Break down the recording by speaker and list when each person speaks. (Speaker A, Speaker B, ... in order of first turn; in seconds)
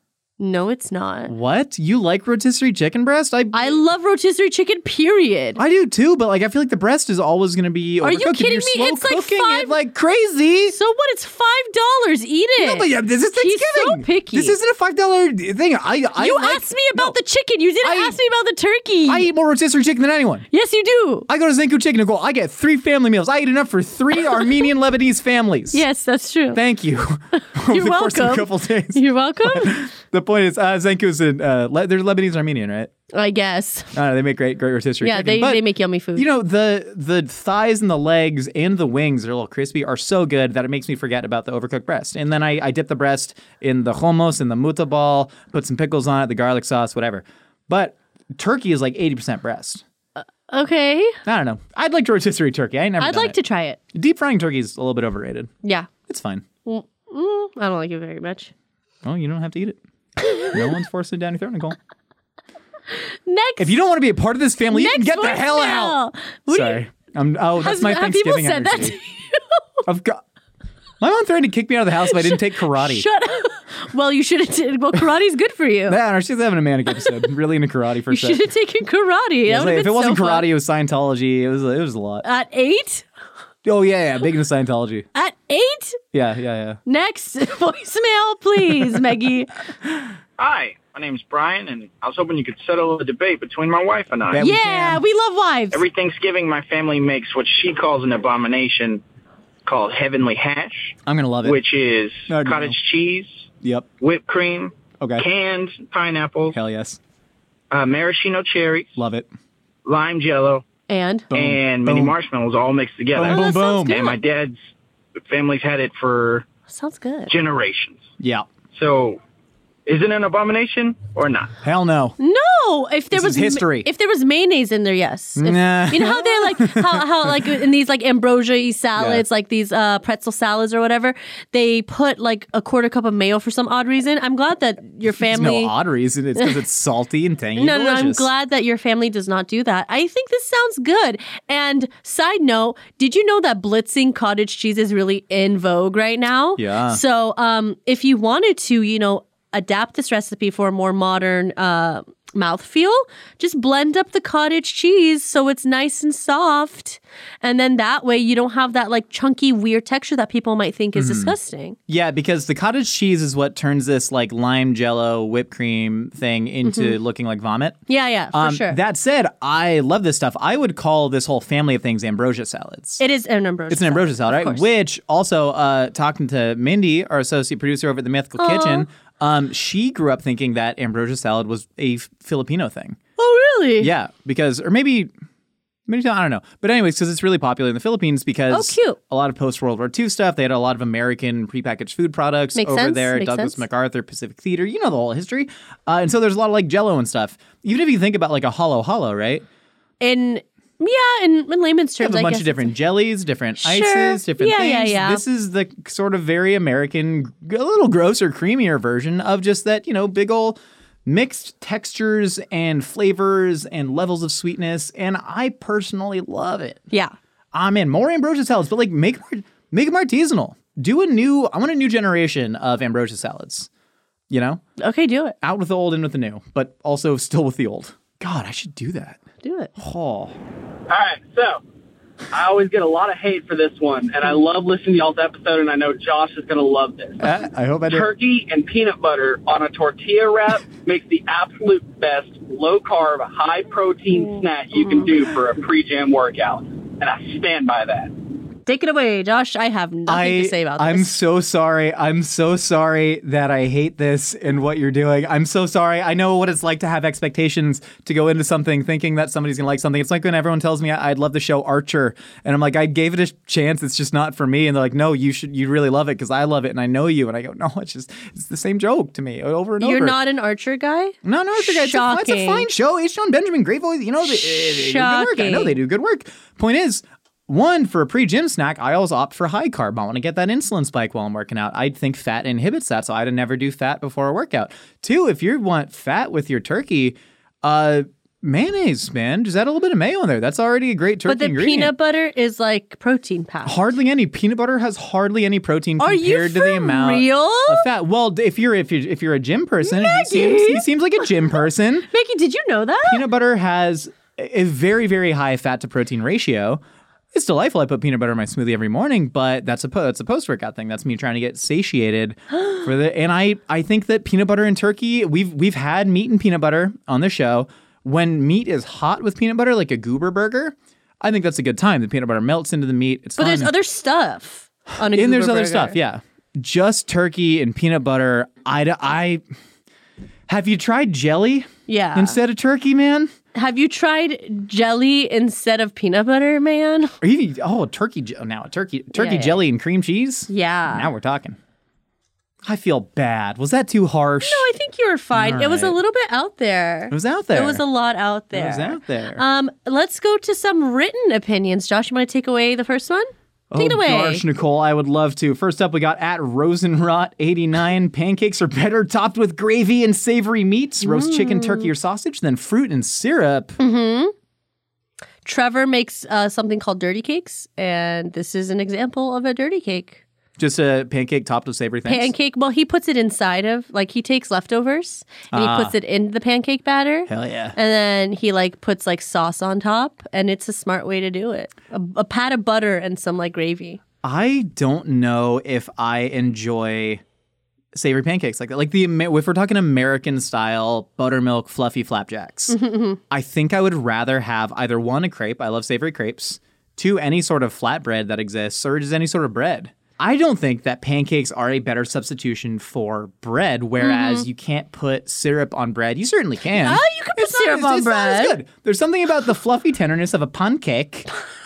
Speaker A: 0.4-1.3, 3.5-5.6, 8.0-9.8, 10.7-14.6, 16.2-19.3, 20.5-21.3, 25.7-26.6, 27.4-29.8, 33.1-33.9, 35.0-36.3, 50.5-51.2, 53.0-53.8, 55.6-55.9, 56.7-58.5, 60.2-60.5, 63.3-63.7, 64.7-66.8, 67.6-69.6, 72.1-76.0, 78.1-80.5, 82.2-83.1, 85.1-86.0, 86.9-89.6, 94.4-95.8, 110.9-111.3, 113.2-114.2, 116.7-117.3, 122.2-135.7, 137.6-161.8, 166.7-166.9, 167.9-168.8, 173.0-174.7, 178.4-178.9, 183.2-183.9, 188.5-189.0, 192.6-193.6, 200.0-202.7, 203.6-205.2, 224.8-225.4, 229.4-229.7, 248.7-251.2, 269.8-272.7, 274.3-275.8, 291.3-293.8, 296.0-297.9, 299.8-300.9, 302.1-303.2, 323.4-326.0, 331.9-332.4, 333.5-337.1, 339.1-339.6, 340.5-341.1, 344.4-354.4, 361.1-361.9, 363.8-364.3, 365.4-370.2, 372.1-384.0, 392.7-393.2, 404.0-404.4, 406.8-408.6
Speaker B: 1.3-3.8, 5.6-10.8, 12.6-17.2, 17.8-18.2, 19.1-20.5, 21.3-25.8, 26.5-32.9, 33.9-35.6, 36.2-49.8, 51.2-53.4, 53.9-55.5, 56.1-56.5, 59.0-59.8, 60.5-61.8, 63.6-69.0, 69.8-70.2, 71.0-73.1, 75.9-78.4, 79.5-82.3, 83.6-85.1, 86.1-86.8, 94.3-95.0, 101.1-101.6, 102.3-102.8, 103.6-103.9, 105.0-105.2, 106.5-107.0, 109.0-109.3, 111.3-112.2, 113.2-114.0, 118.2-118.5, 121.6-122.2, 123.1-123.9, 125.4-127.5, 129.0-129.2, 135.1-138.3, 146.6-147.0, 160.9-161.3, 161.9-167.8, 168.3-173.0, 173.7-183.0, 183.8-185.1, 185.9-199.4, 202.0-216.8, 217.5-223.7, 224.3-224.6, 225.4-229.2, 229.8-230.4, 237.2-238.1, 250.1-270.2, 271.2-291.9, 293.6-302.1, 303.1-306.8, 307.3-323.7, 325.0-329.4, 330.5-333.3, 337.2-341.6, 342.6-344.7, 345.3-346.0, 347.1-347.8, 348.5-349.4, 353.7-363.8, 370.6-372.3, 375.5-375.9, 377.3-377.8, 384.2-387.2, 387.9-392.8, 393.3-411.3
Speaker C: 90.4-94.5, 95.7-99.0, 99.7-103.5, 104.0-106.6, 107.7-108.9, 109.8-110.7, 111.3-114.6, 115.3-116.5, 117.3-118.0, 118.7-119.2, 119.9-121.6
Speaker D: 230.9-231.6, 232.3-237.3, 237.9-248.1